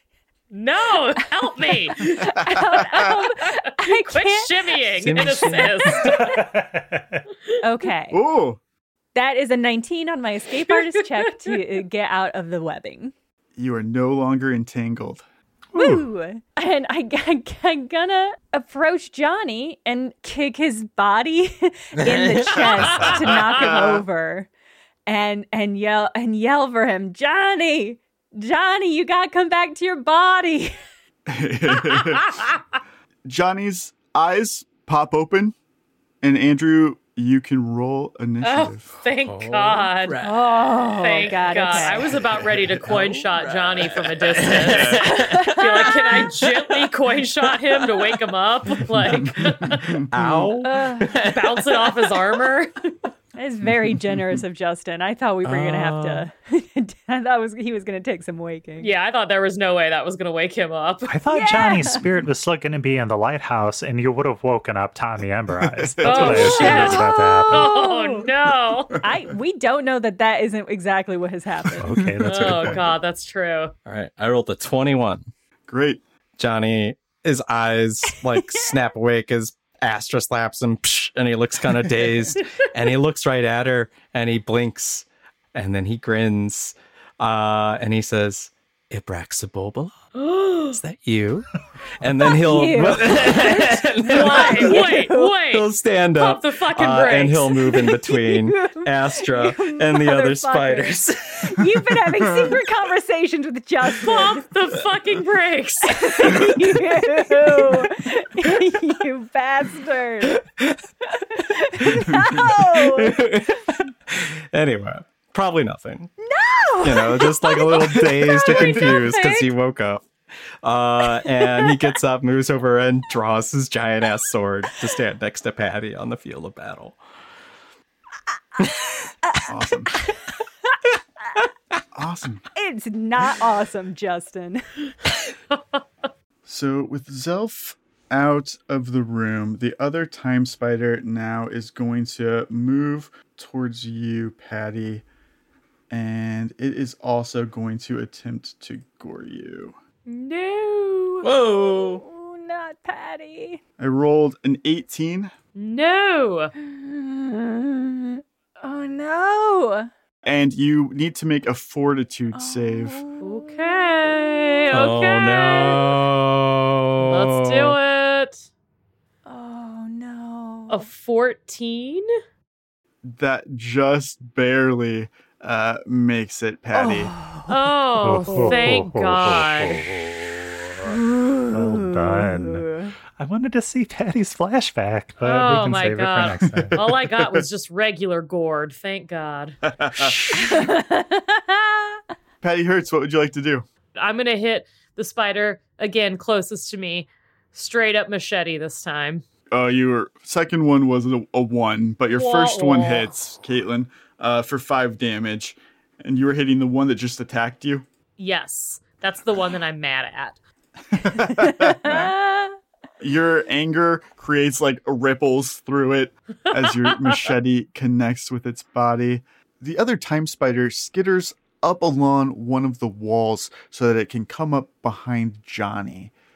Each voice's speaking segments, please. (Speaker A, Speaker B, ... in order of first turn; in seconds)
Speaker A: 0.5-2.4, 3.8-6.4, 11.1-11.5, 38.4-40.3, 41.0-50.0, 51.2-52.8, 58.8-61.1, 66.0-69.0, 72.2-73.7, 90.2-90.7, 94.1-97.7, 104.0-106.5, 150.2-151.0, 155.6-156.5, 163.2-165.8, 167.0-168.5, 170.7-172.1, 177.5-179.8, 185.2-189.6, 194.0-199.2, 202.2-203.1, 208.2-210.4, 216.5-217.2
Speaker B: 1.2-4.8, 7.6-8.2, 9.2-13.1, 15.8-24.5, 25.1-30.8, 40.2-42.1, 45.0-46.3, 50.6-51.1, 53.4-58.9, 61.3-62.0, 66.4-68.3, 69.0-71.9, 78.1-78.6, 92.4-95.4, 97.7-104.5, 105.8-110.4, 111.3-113.2, 116.2-119.5, 121.2-121.8, 128.6-130.3, 132.6-134.6, 151.1-153.6, 156.6-159.9, 162.3-164.6, 169.3-170.9, 176.7-177.6, 178.3-178.8, 180.8-182.9, 190.3-192.0, 211.2-212.6
Speaker C: 2.4-3.0, 8.1-8.6, 13.6-15.2, 23.5-24.0, 31.3-32.4, 33.3-35.5, 36.2-38.9, 44.6-45.0, 49.1-50.5, 65.6-67.0, 71.8-72.8, 75.7-76.0, 129.5-129.9, 131.9-132.4, 136.5-145.0, 145.9-149.8, 153.8-155.3, 160.2-163.0, 173.1-177.1, 186.6-187.4, 189.7-190.4, 192.4-193.7, 199.5-207.9, 210.9-212.2, 213.0-226.1
Speaker D: 5.0-5.9, 22.0-23.1, 39.2-40.4, 41.7-45.6, 50.1-52.2, 55.4-56.3, 73.9-75.3, 76.4-90.0, 90.7-91.5, 92.0-94.9, 95.5-101.6, 107.2-107.9, 110.3-110.8, 111.9-116.1, 116.8-120.0, 120.6-127.0, 151.2-152.0, 164.7-167.8
Speaker E: 5.9-7.2, 15.8-16.0, 61.1-67.7, 71.8-72.9, 178.0-180.9, 181.5-186.8